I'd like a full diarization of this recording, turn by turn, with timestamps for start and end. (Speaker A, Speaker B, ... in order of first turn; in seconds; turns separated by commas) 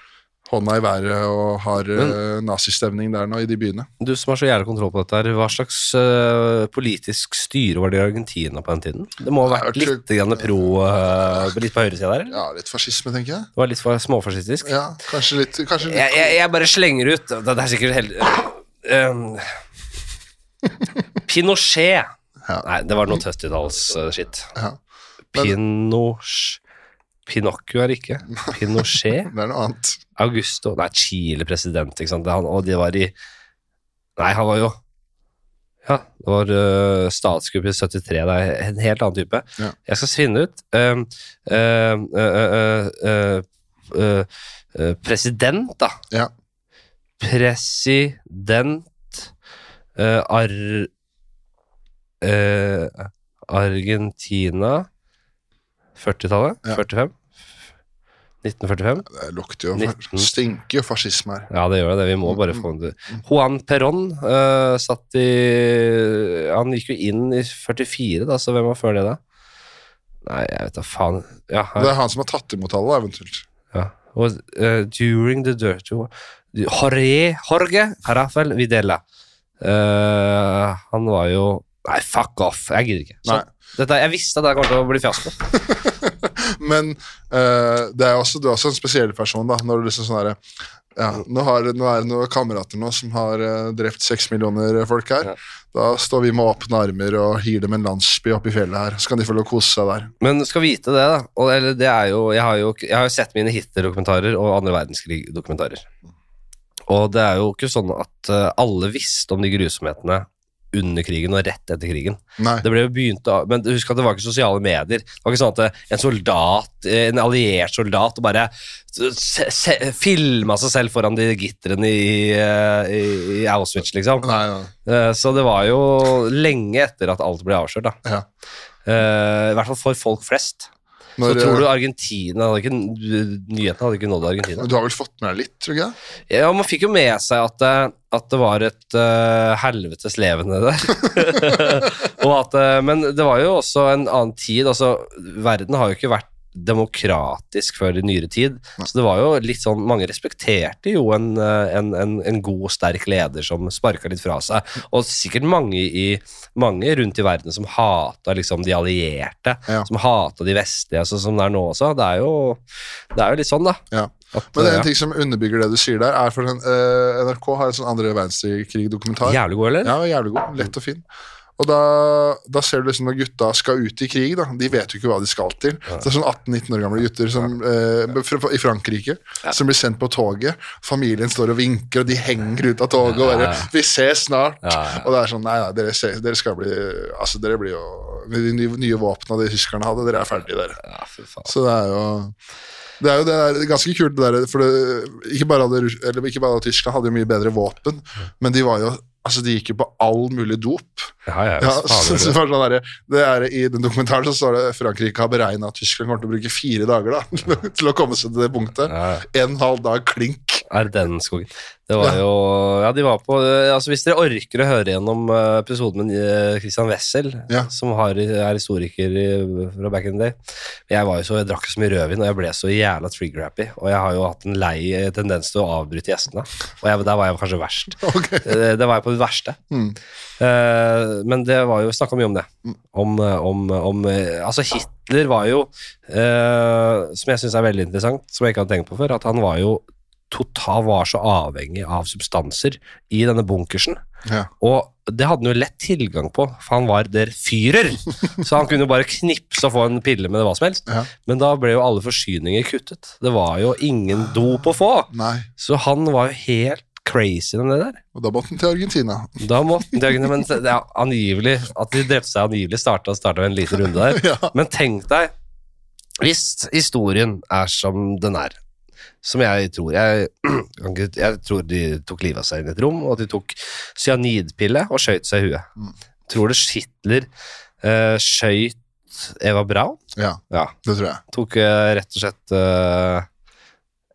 Speaker A: 0.5-3.9, Speaker B: 4.0-12.4, Speaker A: 9.5-11.5, Speaker A: 12.3-13.5, Speaker B: 13.6-14.7, Speaker A: 14.7-16.4, Speaker B: 15.8-19.6, Speaker B: 21.3-22.1, Speaker B: 22.6-24.5, Speaker B: 25.3-26.6, Speaker B: 27.3-29.3, Speaker A: 29.2-30.0, Speaker B: 30.2-33.1, Speaker B: 34.2-34.8, Speaker B: 35.9-46.0, Speaker B: 47.2-49.3, Speaker B: 50.0-50.9, Speaker B: 52.2-54.9, Speaker B: 56.0-57.1, Speaker B: 58.4-59.1, Speaker A: 59.1-61.5, Speaker B: 59.8-60.3, Speaker B: 61.5-69.2, Speaker A: 62.3-62.6, Speaker B: 70.2-71.9, Speaker A: 71.8-73.5, Speaker B: 73.7-79.0, Speaker B: 79.6-85.4, Speaker A: 85.5-90.4, Speaker A: 91.0-100.1, Speaker B: 100.2-105.9, Speaker B: 106.9-124.3, Speaker A: 112.4-112.7, Speaker A: 124.2-124.7, Speaker B: 124.8-128.0, Speaker B: 128.9-130.7, Speaker A: 131.2-131.7, Speaker B: 131.2-134.7, Speaker A: 134.6-135.9, Speaker B: 136.3-162.6, Speaker B: 163.1-164.9, Speaker A: 163.9-171.1, Speaker B: 169.2-170.0, Speaker A: 171.6-190.8, Speaker B: 183.1-183.7, Speaker B: 184.6-185.1, Speaker B: 190.8-191.5, Speaker A: 191.5-192.3, Speaker A: 193.0-210.7, Speaker B: 201.3-202.4, Speaker B: 208.9-209.2, Speaker B: 210.7-220.4, Speaker B: 220.9-229.6, Speaker A: 228.0-228.5, Speaker A: 229.7-230.0, Speaker B: 230.4-244.0, Speaker B: 244.6-258.0, Speaker A: 255.1-255.5, Speaker A: 258.1-260.4, Speaker B: 259.4-265.3, Speaker A: 263.9-264.5, Speaker B: 266.2-268.6, Speaker B: 269.2-275.7, Speaker B: 276.3-277.3, Speaker B: 277.8-280.8, Speaker A: 280.2-281.2, Speaker B: 281.3-283.3